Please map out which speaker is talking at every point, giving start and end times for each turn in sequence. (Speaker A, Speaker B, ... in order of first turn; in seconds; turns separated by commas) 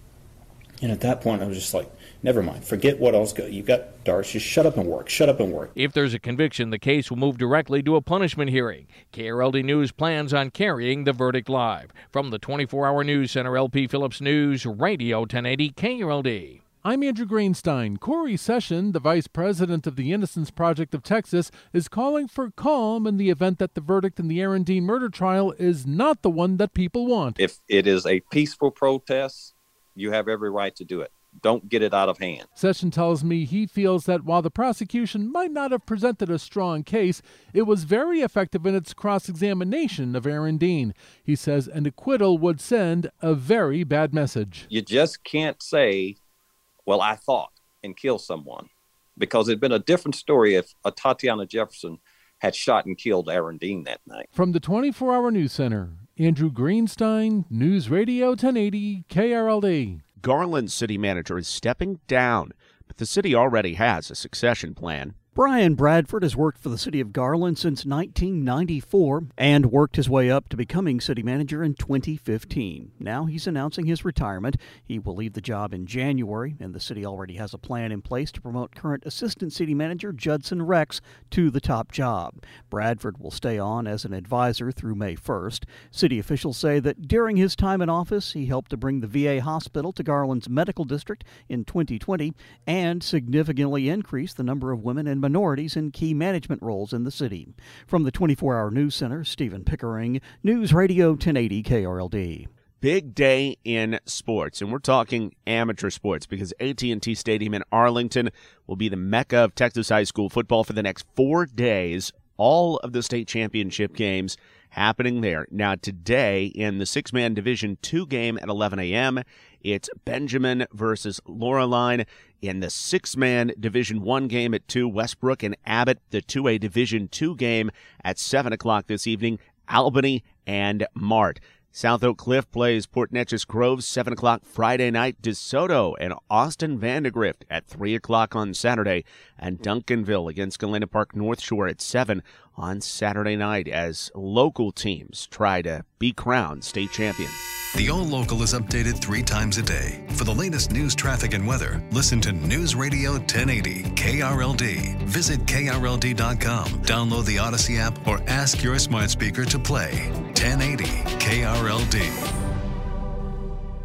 Speaker A: 0.8-5.7, Speaker B: 5.8-16.6, Speaker C: 16.8-27.4, Speaker D: 27.4-32.5, Speaker C: 32.5-44.6, Speaker D: 44.7-46.2, Speaker D: 46.9-54.2, Speaker C: 54.3-60.0, Speaker E: 60.2-65.1, Speaker F: 65.4-102.5, Speaker E: 102.8-147.5, Speaker G: 147.7-162.2